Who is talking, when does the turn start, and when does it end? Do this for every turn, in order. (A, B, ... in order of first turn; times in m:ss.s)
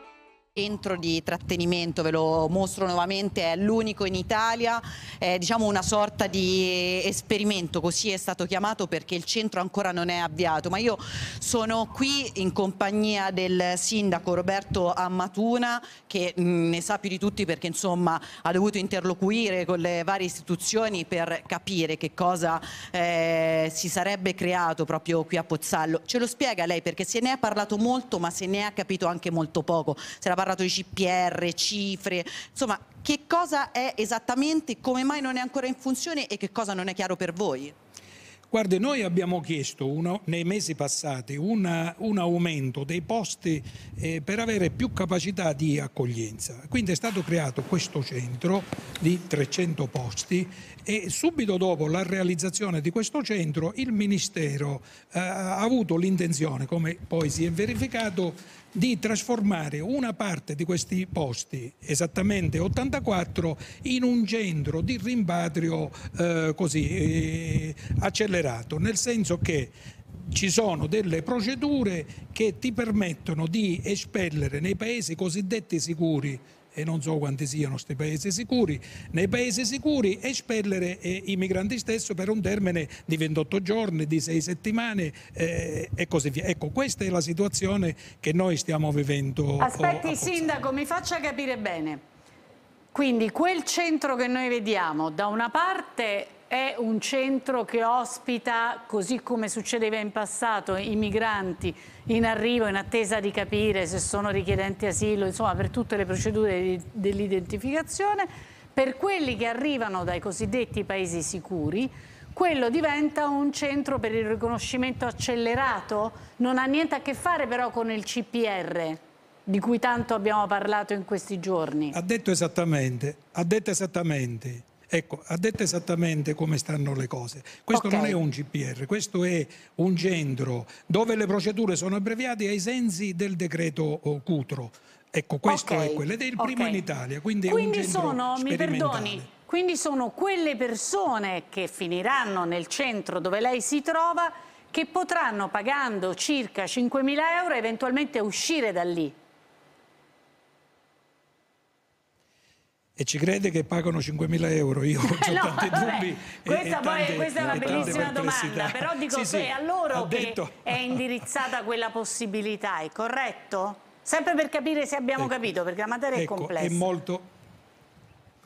0:00.6-0:37.7 A
0:38.5-1:09.7 B
1:10.3-1:30.7 B
1:29.6-1:32.0 C
1:32.9-2:02.0 C
2:01.9-2:19.3 B
2:07.7-2:08.2 C
2:15.5-2:16.8 C
2:17.5-2:29.2 C
2:33.0-2:41.0 B
2:35.0-2:46.9 C
2:46.1-2:47.3 B